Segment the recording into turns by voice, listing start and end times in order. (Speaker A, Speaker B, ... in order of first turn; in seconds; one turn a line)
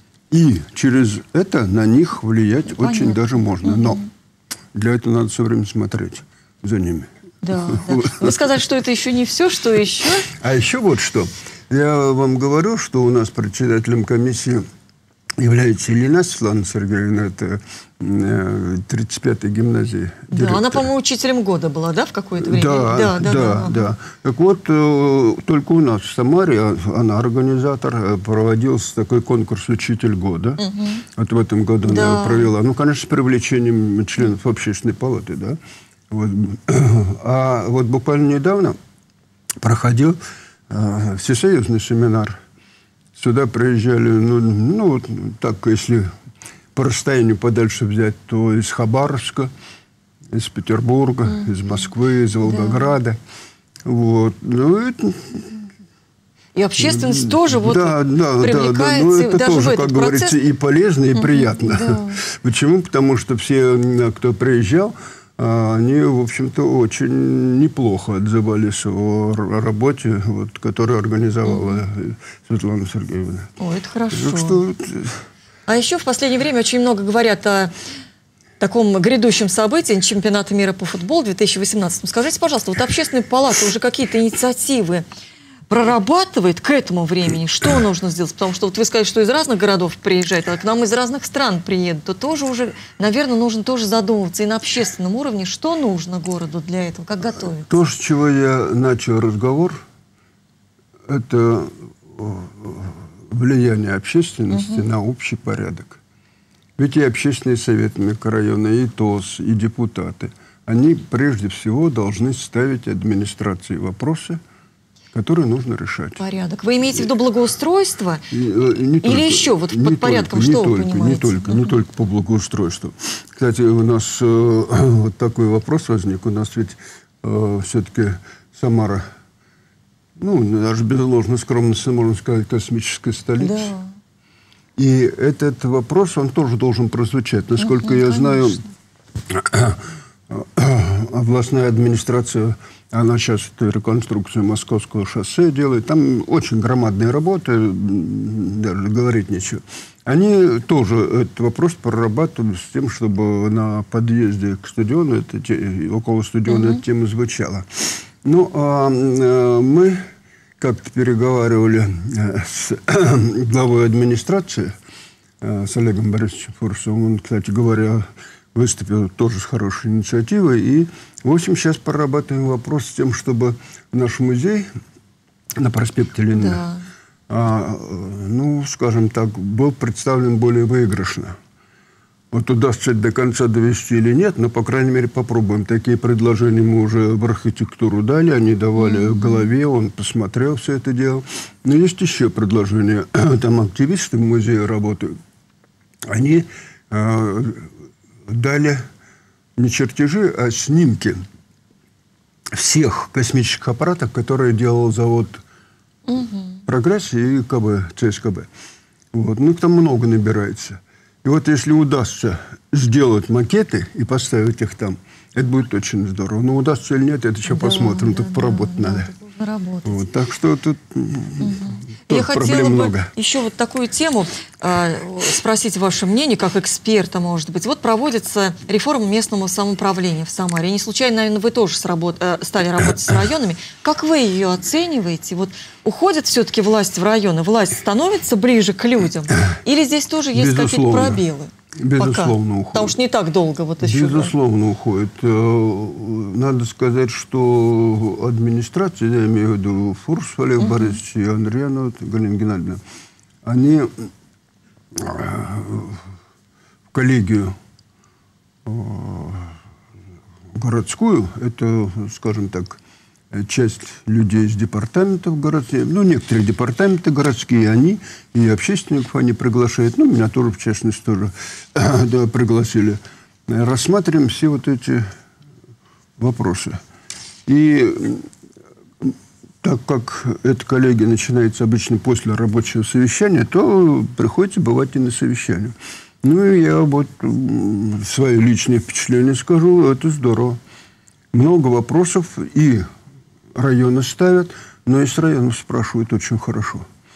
Speaker A: 0.3-4.0
Speaker B: 2.8-4.0
Speaker A: 4.7-7.1
Speaker B: 7.4-10.3
Speaker A: 7.7-8.4
Speaker A: 10.3-14.6
Speaker A: 15.4-20.9
Speaker B: 20.3-23.9
Speaker A: 22.4-35.6
Speaker B: 30.6-31.0
Speaker B: 31.8-32.5
Speaker A: 36.1-38.8
Speaker A: 39.6-40.2
Speaker A: 40.7-42.4
Speaker A: 43.1-46.1
Speaker A: 46.7-49.5
Speaker A: 50.3-53.2
Speaker B: 52.5-52.9
Speaker A: 53.8-55.6
Speaker B: 56.5-60.4
Speaker A: 56.8-73.5
Speaker B: 61.1-62.2
Speaker B: 71.5-71.8
Speaker B: 73.6-74.6
Speaker A: 74.1-75.2
Speaker B: 75.7-77.7
Speaker B: 78.6-85.0
Speaker B: 85.7-97.8
Speaker A: 97.7-99.8
Speaker A: 101.1-106.0
Speaker B: 104.5-104.8
Speaker A: 106.8-114.4
Speaker A: 115.1-116.2
Speaker B: 116.2-118.2
Speaker A: 118.3-129.0
Speaker B: 119.0-121.8
Speaker A: 130.2-133.7
Speaker B: 133.4-133.9
Speaker A: 134.8-138.6
Speaker B: 137.6-138.6
Speaker A: 139.3-160.0
Speaker B: 156.5-156.8
Speaker A: 160.6-164.7
Speaker A: 165.4-174.7
Speaker A: 175.6-176.6
Speaker B: 176.3-176.8
Speaker A: 177.3-181.3
Speaker A: 182.3-195.2
Speaker B: 188.8-189.5
Speaker A: 196.1-197.7
Speaker A: 198.3-198.8
Speaker A: 199.6-201.2
Speaker A: 202.5-205.4
Speaker B: 206.1-206.6
Speaker A: 206.7-208.5
Speaker A: 209.1-219.1
Speaker B: 217.5-220.1
Speaker A: 219.8-223.1
Speaker B: 221.4-244.3
Speaker A: 240.3-241.2
Speaker A: 241.8-242.9
Speaker A: 243.8-252.8
Speaker B: 250.6-251.0
Speaker A: 253.4-254.1
Speaker A: 254.9-256.0
Speaker A: 256.9-257.6
Speaker A: 258.6-259.6
Speaker A: 260.5-262.8
Speaker A: 263.3-275.0
Speaker A: 276.2-276.8
Speaker A: 277.4-278.3
Speaker A: 279.0-290.6
Speaker A: 291.3-292.9
Speaker A: 293.5-296.9